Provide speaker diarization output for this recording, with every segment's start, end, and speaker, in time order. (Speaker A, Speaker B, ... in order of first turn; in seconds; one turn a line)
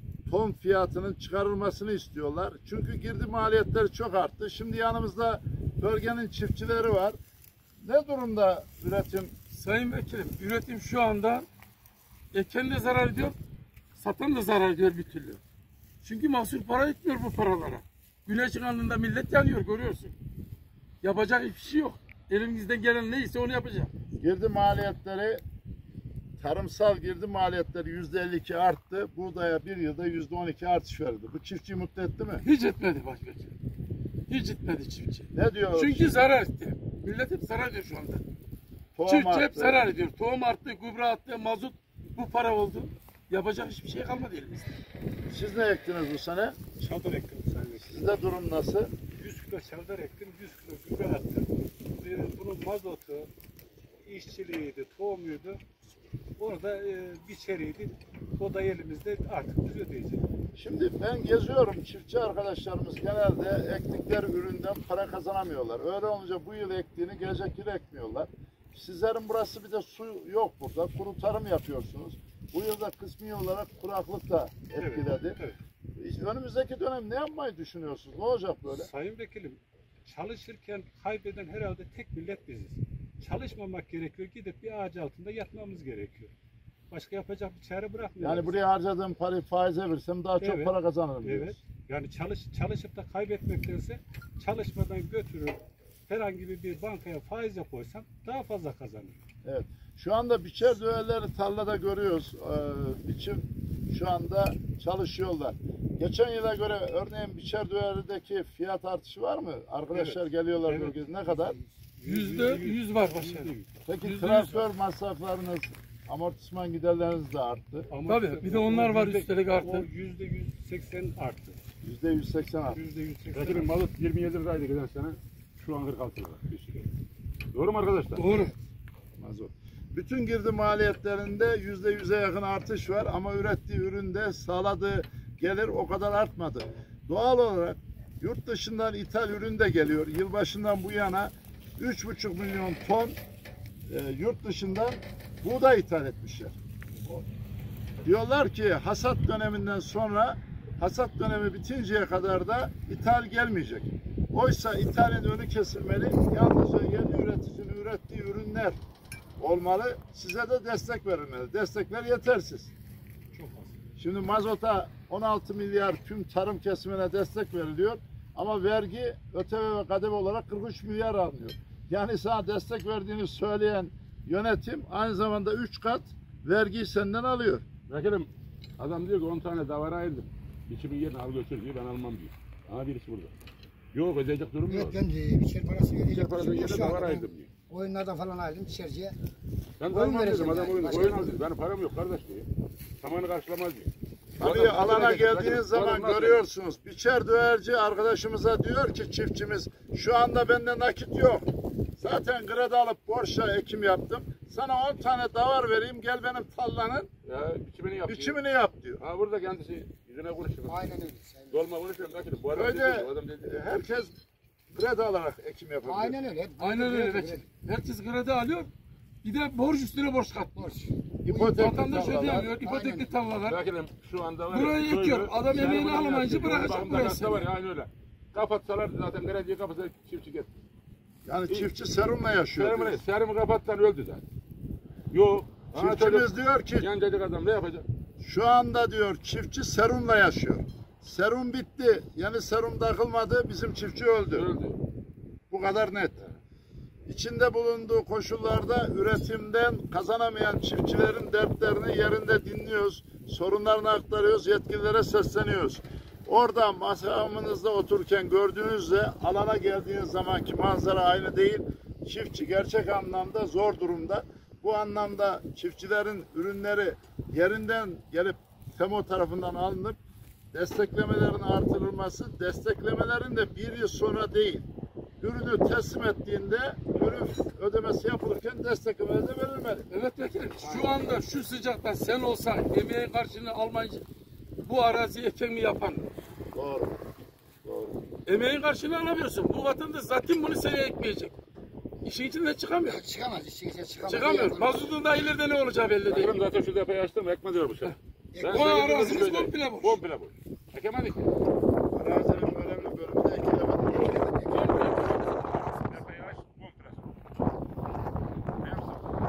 Speaker A: 0.3-7.2
Speaker A: 7.8-9.3
Speaker B: 9.5-11.5
Speaker B: 12.3-13.4
Speaker B: 14.0-15.4
Speaker B: 16.0-20.1
Speaker B: 21.0-23.9
Speaker A: 24.2-25.4
Speaker A: 26.4-32.5
Speaker B: 32.4-33.5
Speaker B: 34.3-38.2
Speaker A: 35.3-36.2
Speaker A: 39.0-39.8
Speaker B: 39.1-44.8
Speaker A: 45.3-46.6
Speaker C: 46.8-48.1
Speaker A: 47.8-48.9
Speaker C: 49.1-53.3
Speaker C: 54.0-55.6
Speaker C: 56.4-60.3
Speaker A: 60.5-75.4
Speaker C: 74.8-75.6
Speaker A: 76.0-78.9
Speaker C: 78.7-86.3
Speaker C: 86.9-88.6
Speaker A: 88.2-91.6
Speaker C: 90.4-99.2
Speaker A: 99.4-111.6
Speaker C: 109.9-111.0
Speaker C: 112.0-113.7
Speaker B: 112.0-114.6
Speaker A: 113.9-117.9
Speaker C: 117.9-121.6
Speaker B: 118.1-119.9
Speaker A: 121.8-122.8
Speaker C: 122.7-123.7
Speaker D: 123.3-126.8
Speaker D: 127.5-128.3
Speaker B: 128.2-128.5
Speaker A: 129.2-143.2
Speaker A: 143.9-147.2
Speaker A: 148.0-158.8
Speaker A: 159.4-162.7
Speaker C: 163.3-163.8
Speaker A: 164.0-177.7
Speaker D: 177.9-183.3
Speaker D: 183.9-185.0
Speaker E: 184.7-189.2
Speaker D: 186.1-187.5
Speaker D: 189.8-192.5
Speaker E: 189.9-191.3
Speaker D: 193.0-196.4
Speaker A: 194.4-207.1
Speaker D: 207.3-208.4
Speaker A: 208.1-209.0
Speaker D: 209.0-210.9
Speaker E: 210.7-211.7
Speaker D: 211.5-213.6
Speaker A: 212.5-214.2
Speaker A: 214.7-216.2
Speaker E: 215.8-217.5
Speaker B: 216.6-218.7
Speaker B: 219.2-220.7
Speaker E: 220.6-221.5
Speaker A: 221.2-222.5
Speaker B: 221.3-223.6
Speaker E: 222.5-223.2
Speaker D: 223.4-230.6
Speaker B: 224.5-227.5
Speaker A: 231.3-233.0
Speaker D: 232.6-234.2
Speaker D: 235.1-237.9
Speaker A: 235.8-236.9
Speaker A: 238.2-244.5
Speaker D: 244.3-244.8
Speaker A: 245.5-246.2
Speaker A: 247.1-270.0
Speaker A: 270.5-274.7
Speaker A: 275.2-279.9
Speaker B: 279.9-284.1
Speaker D: 280.6-281.1
Speaker B: 284.6-286.1
Speaker A: 286.5-287.0
Speaker A: 287.6-288.0
Speaker B: 288.3-291.4
Speaker B: 292.0-293.1
Speaker E: 292.8-294.9
Speaker B: 294.0-296.4
Speaker D: 296.1-301.3
Speaker B: 297.9-300.0
Speaker E: 298.3-299.4
Speaker A: 301.9-304.4
Speaker E: 304.2-304.7
Speaker D: 304.5-307.0
Speaker B: 304.5-306.0
Speaker D: 308.6-309.0